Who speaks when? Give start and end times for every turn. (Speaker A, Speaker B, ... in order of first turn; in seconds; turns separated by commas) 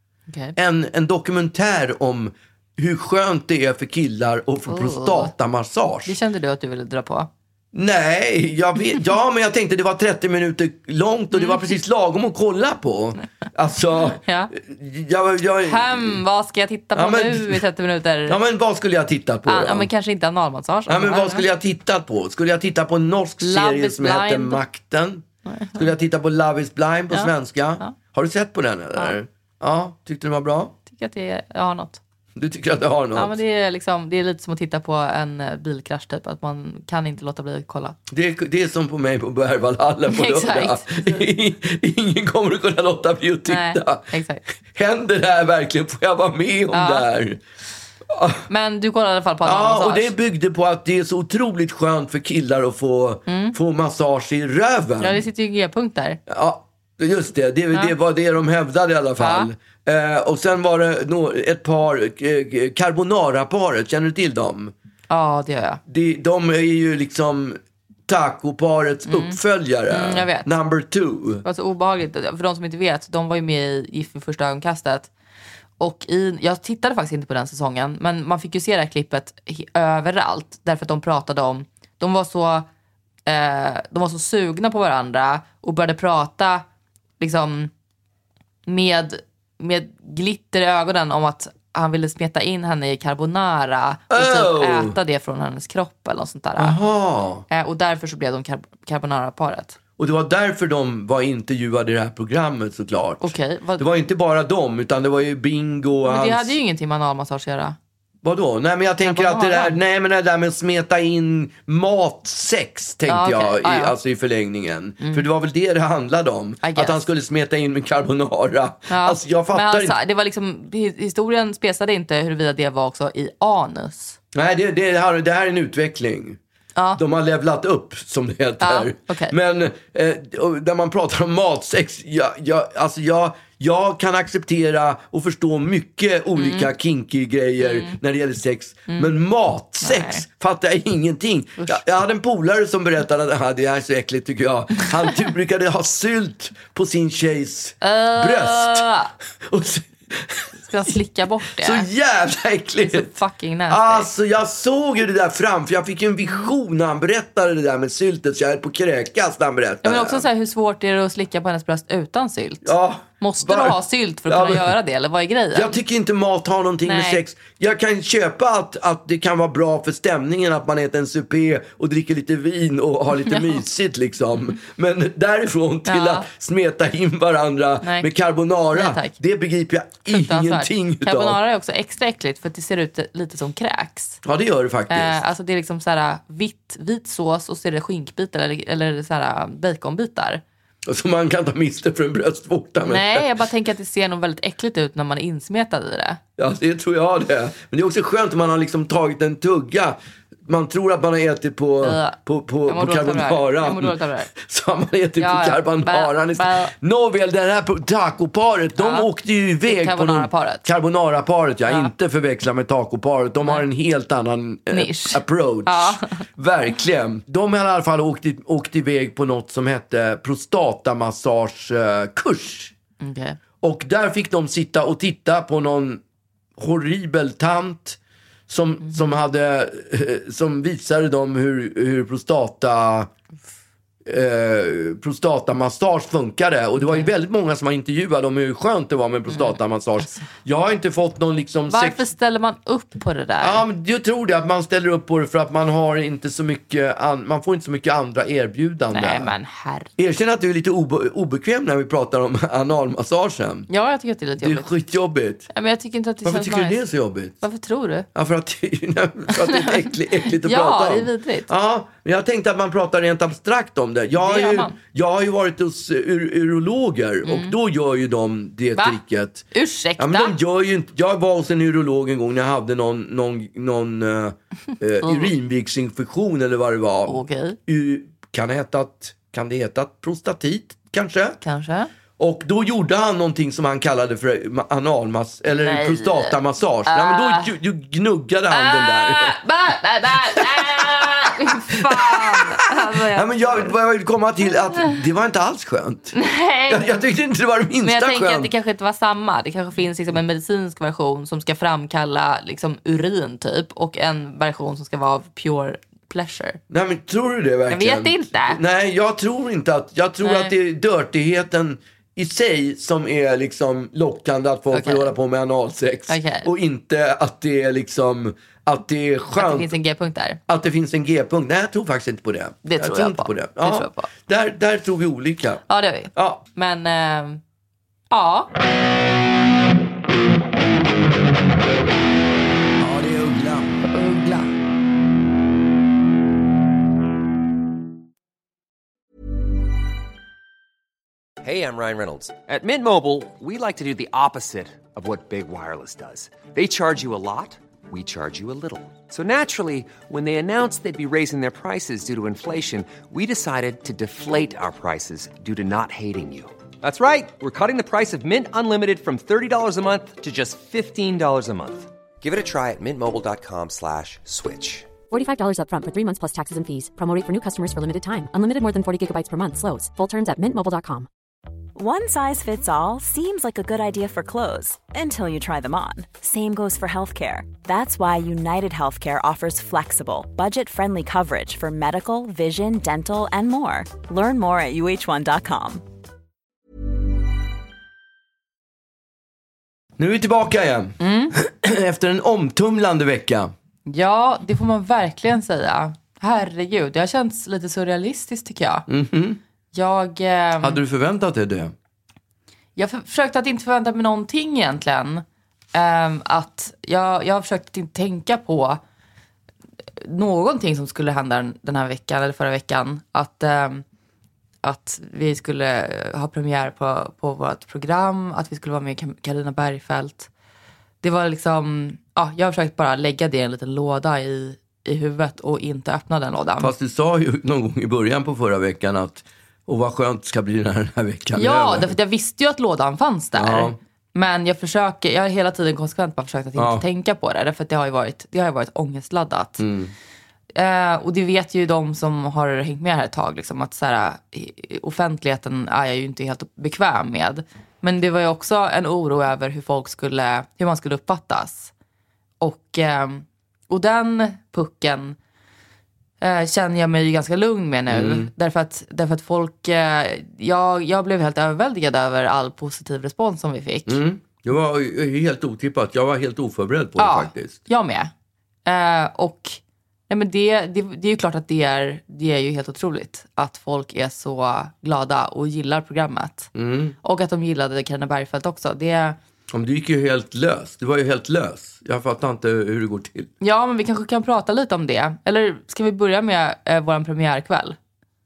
Speaker A: 0.3-0.5, Speaker B: 0.6-6.1, Speaker A: 4.7-5.3, Speaker A: 6.0-7.3, Speaker B: 7.7-16.2, Speaker A: 11.3-11.6, Speaker A: 14.1-14.5, Speaker A: 15.7-18.4, Speaker B: 16.9-17.6, Speaker B: 18.3-19.9, Speaker A: 19.5-21.4, Speaker B: 20.9-30.7, Speaker A: 23.4-24.6, Speaker A: 25.4-25.9, Speaker A: 27.1-27.9, Speaker A: 30.9-32.0, Speaker B: 32.4-33.3, Speaker A: 33.1-38.0, Speaker B: 38.1-44.1, Speaker A: 40.1-41.3, Speaker A: 43.5-44.4, Speaker B: 44.7-47.4, Speaker A: 46.7-47.0, Speaker B: 48.1-48.4, Speaker A: 48.5-50.1, Speaker B: 49.5-55.2, Speaker A: 53.3-53.5, Speaker A: 55.0-56.2, Speaker B: 56.3-64.7, Speaker A: 59.2-59.5, Speaker A: 65.1-65.8, Speaker B: 65.9-71.4, Speaker A: 69.1-70.5, Speaker A: 71.4-75.1, Speaker A: 75.8-82.7, Speaker A: 83.2-86.6, Speaker A: 87.2-87.7, Speaker A: 88.7-96.8, Speaker B: 94.1-95.0, Speaker B: 96.6-97.4, Speaker A: 97.5-99.8, Speaker B: 100.0-106.6, Speaker A: 103.2-103.9, Speaker A: 106.1-107.8, Speaker B: 108.2-120.0, Speaker A: 109.0-109.8, Speaker A: 113.1-114.0, Speaker A: 115.0-115.3, Speaker A: 116.6-117.0, Speaker A: 118.9-124.2, Speaker B: 124.3-126.4, Speaker A: 126.8-127.0, Speaker B: 126.9-148.8, Speaker A: 128.6-129.3, Speaker A: 136.3-136.7, Speaker A: 137.6-137.9, Speaker A: 139.8-140.2, Speaker A: 141.6-141.8, Speaker A: 147.8-149.1, Speaker B: 149.5-150.5, Speaker A: 150.6-151.8, Speaker B: 151.6-153.2, Speaker A: 152.9-154.1, Speaker B: 153.7-160.2, Speaker A: 159.8-165.8, Speaker B: 162.6-163.8, Speaker B: 164.3-164.8, Speaker B: 165.5-181.4, Speaker A: 166.8-167.2, Speaker A: 173.2-173.6, Speaker A: 175.9-176.2, Speaker A: 177.8-178.1, Speaker A: 178.7-179.2, Speaker A: 180.1-184.2, Speaker B: 184.2-185.2, Speaker A: 184.9-190.4, Speaker B: 190.9-193.3, Speaker A: 192.8-196.2, Speaker B: 196.4-222.7, Speaker A: 201.8-204.3, Speaker A: 205.2-206.7, Speaker A: 208.8-209.1, Speaker A: 209.7-210.7, Speaker A: 214.7-216.2, Speaker A: 223.0-223.4, Speaker B: 223.6-226.0, Speaker B: 226.6-228.0, Speaker B: 228.5-233.1, Speaker A: 228.8-229.1, Speaker B: 234.1-242.1, Speaker A: 236.8-237.1, Speaker A: 239.3-240.3, Speaker A: 241.7-243.6, Speaker B: 243.4-249.3, Speaker A: 248.9-249.9, Speaker B: 250.0-253.7, Speaker A: 253.7-254.7, Speaker B: 254.4-255.5, Speaker A: 255.5-256.8, Speaker B: 256.2-257.4, Speaker A: 257.4-258.1, Speaker B: 258.1-269.5, Speaker A: 259.3-261.5, Speaker A: 264.2-264.8, Speaker A: 267.2-267.6, Speaker A: 268.8-270.4, Speaker B: 270.0-281.4, Speaker A: 275.0-275.3, Speaker A: 277.1-277.6, Speaker A: 281.4-281.9, Speaker B: 282.2-289.4, Speaker A: 285.5-287.5, Speaker A: 288.5-293.7, Speaker B: 290.3-296.1, Speaker A: 296.1-296.9, Speaker B: 296.7-298.5, Speaker A: 297.8-306.6, Speaker B: 306.7-319.7, Speaker A: 307.7-308.6, Speaker A: 310.2-310.5, Speaker A: 314.7-315.1, Speaker A: 316.1-316.5, Speaker A: 319.3-320.4, Speaker B: 320.5-325.6, Speaker A: 322.6-324.1, Speaker A: 325.7-327.4, Speaker B: 326.1-326.4, Speaker A: 328.1-328.5, Speaker B: 332.8-333.8, Speaker A: 333.9-334.5, Speaker C: 341.4-364.9, Speaker D: 365.1-371.1, Speaker E: 371.8-385.8, Speaker B: 390.0-393.5, Speaker A: 391.0-391.3, Speaker A: 393.9-398.9, Speaker B: 398.9-399.4, Speaker A: 399.7-400.8, Speaker B: 400.6-401.7, Speaker A: 402.8-408.8, Speaker A: 410.0-413.8, Speaker A: 414.6-420.3, Speaker A: 421.0-426.7, Speaker B: 426.6-431.9, Speaker A: 431.3-439.6, Speaker B: 433.4-433.8, Speaker B: 436.6-436.8, Speaker B: 439.6-439.9, Speaker A: 440.6-451.7, Speaker A: 452.4-455.2, Speaker A: 456.2-464.0, Speaker B: 457.9-458.3, Speaker B: 463.9-467.6, Speaker A: 467.0-468.1, Speaker A: 468.7-476.5, Speaker B: 476.6-476.9, Speaker A: 477.0-479.2, Speaker B: 479.5-483.3, Speaker A: 483.4-487.8